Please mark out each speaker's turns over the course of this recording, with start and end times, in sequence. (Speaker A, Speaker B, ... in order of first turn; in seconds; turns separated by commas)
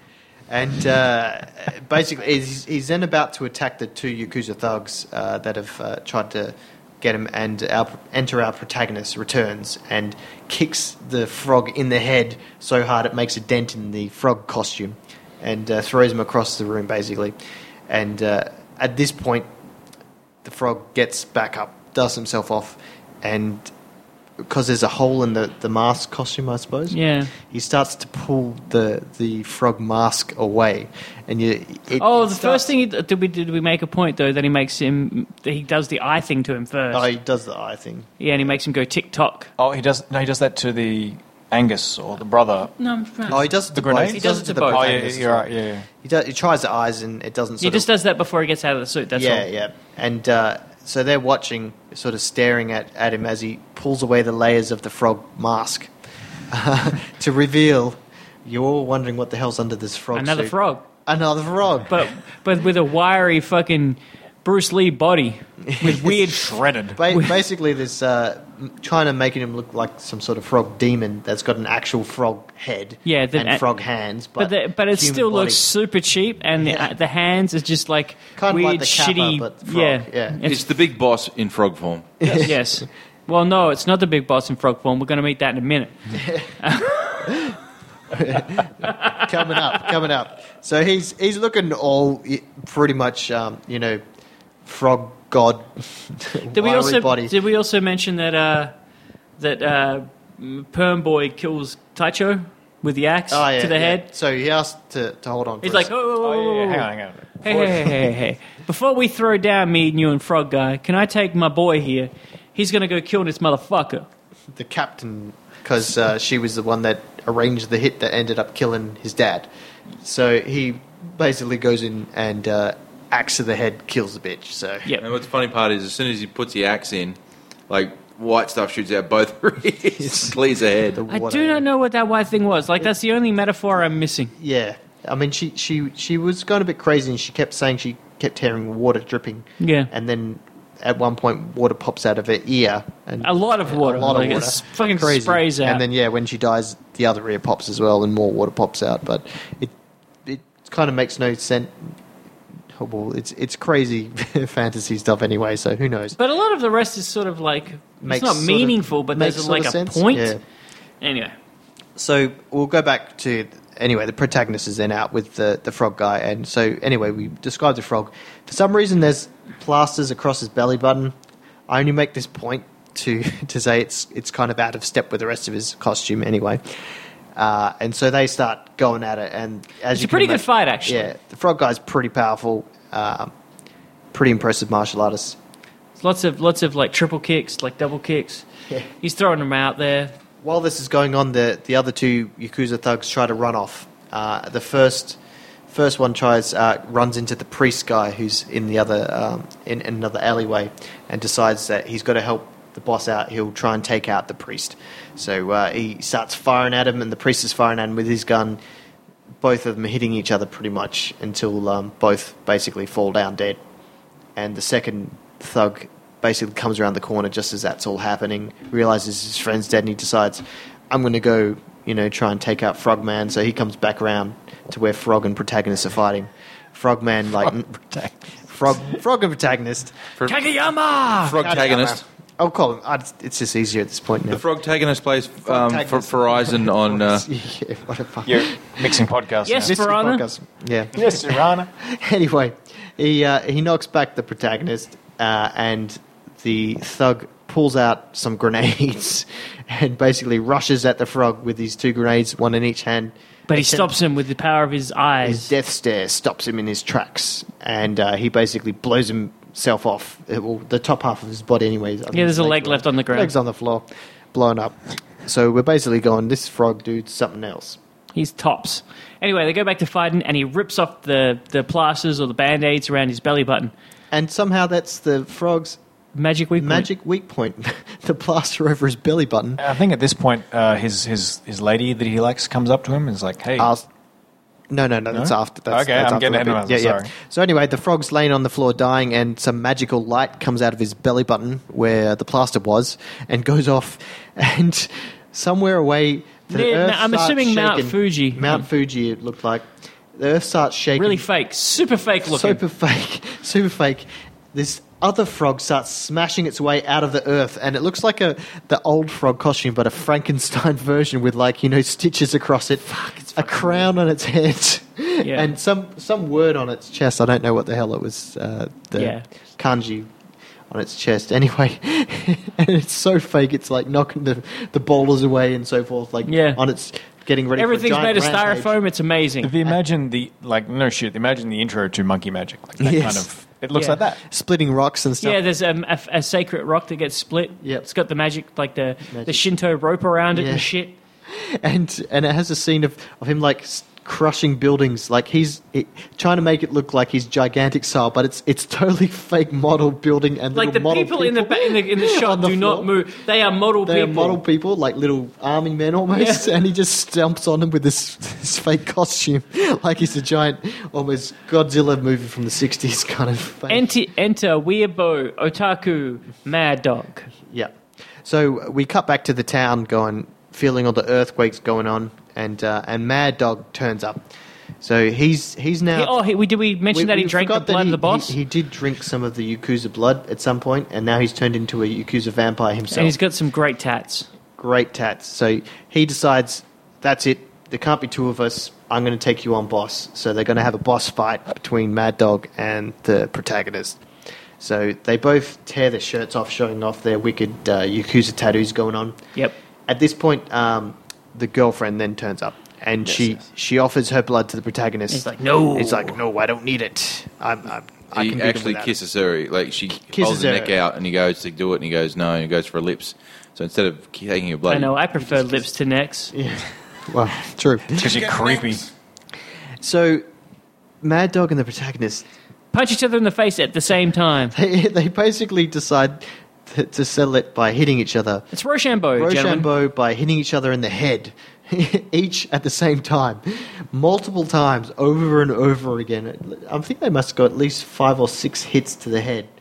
Speaker A: 0.5-17.4, Speaker A: 17.9-19.5, Speaker A: 20.4-23.7, Speaker A: 24.4-32.7, Speaker B: 26.9-27.3, Speaker B: 32.0-37.1, Speaker A: 36.9-38.1, Speaker B: 38.2-39.5, Speaker C: 39.6-42.7, Speaker B: 42.8-43.4, Speaker A: 43.3-45.5, Speaker C: 43.3-45.9, Speaker B: 44.1-44.9, Speaker A: 46.0-47.9, Speaker B: 47.6-49.5, Speaker A: 49.1-55.9, Speaker A: 56.5-60.5, Speaker B: 60.1-60.9, Speaker A: 61.0-62.0, Speaker B: 61.9-66.5, Speaker A: 65.7-66.2, Speaker C: 66.3-67.0, Speaker A: 66.9-75.6, Speaker B: 73.0-73.6, Speaker B: 74.4-80.7, Speaker A: 76.6-76.9, Speaker A: 78.4-80.4, Speaker D: 80.4-82.3, Speaker A: 82.2-82.6, Speaker B: 82.3-87.3, Speaker A: 86.2-86.5, Speaker A: 87.2-87.6, Speaker A: 88.1-94.0, Speaker B: 88.9-89.2, Speaker A: 94.6-97.3, Speaker B: 96.5-98.7, Speaker B: 99.4-104.0, Speaker A: 103.3-105.9, Speaker B: 105.6-106.9, Speaker C: 106.2-108.1, Speaker B: 107.4-114.1, Speaker A: 114.5-119.5, Speaker A: 120.0-124.9, Speaker D: 125.0-127.2, Speaker D: 127.7-131.0, Speaker A: 130.0-130.3, Speaker A: 130.9-131.6, Speaker B: 131.1-134.3, Speaker A: 134.4-149.7, Speaker B: 139.6-139.9, Speaker B: 143.2-145.8, Speaker A: 150.2-151.9, Speaker A: 152.7-156.2, Speaker B: 156.2-160.3, Speaker A: 158.0-160.4, Speaker B: 161.0-161.3, Speaker A: 161.9-171.1, Speaker A: 171.7-176.6, Speaker A: 177.3-183.3, Speaker B: 179.9-181.1, Speaker A: 184.1-185.4, Speaker B: 186.0-188.4, Speaker B: 189.0-190.1, Speaker A: 190.4-195.2, Speaker A: 195.7-208.6, Speaker A: 209.4-213.6, Speaker A: 214.3-227.8, Speaker C: 227.4-228.3, Speaker A: 228.5-230.1, Speaker D: 230.2-230.4, Speaker B: 230.2-231.4, Speaker D: 231.2-232.0, Speaker A: 231.3-234.4, Speaker D: 234.3-237.2, Speaker A: 235.5-239.0, Speaker C: 238.2-239.8, Speaker B: 239.4-240.2, Speaker A: 239.6-253.9, Speaker C: 240.9-241.7, Speaker B: 253.5-255.5, Speaker A: 255.2-267.8, Speaker B: 262.1-263.3, Speaker B: 268.1-273.7, Speaker A: 274.1-275.8, Speaker B: 276.1-276.9, Speaker A: 276.6-279.6, Speaker C: 279.6-283.7, Speaker A: 283.6-283.9, Speaker A: 284.7-301.2, Speaker C: 285.1-287.1, Speaker B: 296.5-298.6, Speaker B: 301.0-302.6, Speaker A: 302.3-320.1, Speaker B: 312.9-313.9, Speaker B: 315.2-315.5, Speaker B: 318.9-319.2, Speaker A: 320.7-328.7, Speaker B: 326.2-326.6, Speaker B: 327.6-329.5, Speaker C: 329.4-334.2, Speaker A: 332.8-333.3, Speaker B: 333.7-334.0, Speaker A: 334.2-335.4, Speaker B: 335.2-340.9, Speaker A: 337.6-337.9, Speaker A: 339.1-339.4, Speaker A: 340.3-340.7, Speaker A: 341.3-352.9, Speaker B: 350.5-354.4, Speaker A: 353.8-363.9, Speaker B: 356.1-356.4, Speaker B: 363.7-367.3, Speaker A: 367.5-374.2, Speaker A: 374.8-376.2, Speaker B: 375.9-378.4, Speaker A: 376.9-383.1, Speaker B: 382.9-384.3, Speaker A: 384.6-394.0, Speaker A: 394.6-399.2, Speaker A: 399.9-408.9, Speaker B: 405.1-406.2, Speaker D: 408.1-414.9, Speaker A: 410.0-410.7, Speaker B: 414.7-416.3, Speaker A: 415.2-415.6, Speaker A: 416.3-418.3, Speaker C: 417.9-418.9, Speaker A: 419.8-420.2, Speaker A: 421.0-422.2, Speaker B: 422.7-424.5, Speaker A: 424.5-428.4, Speaker B: 428.5-429.7, Speaker A: 429.1-439.5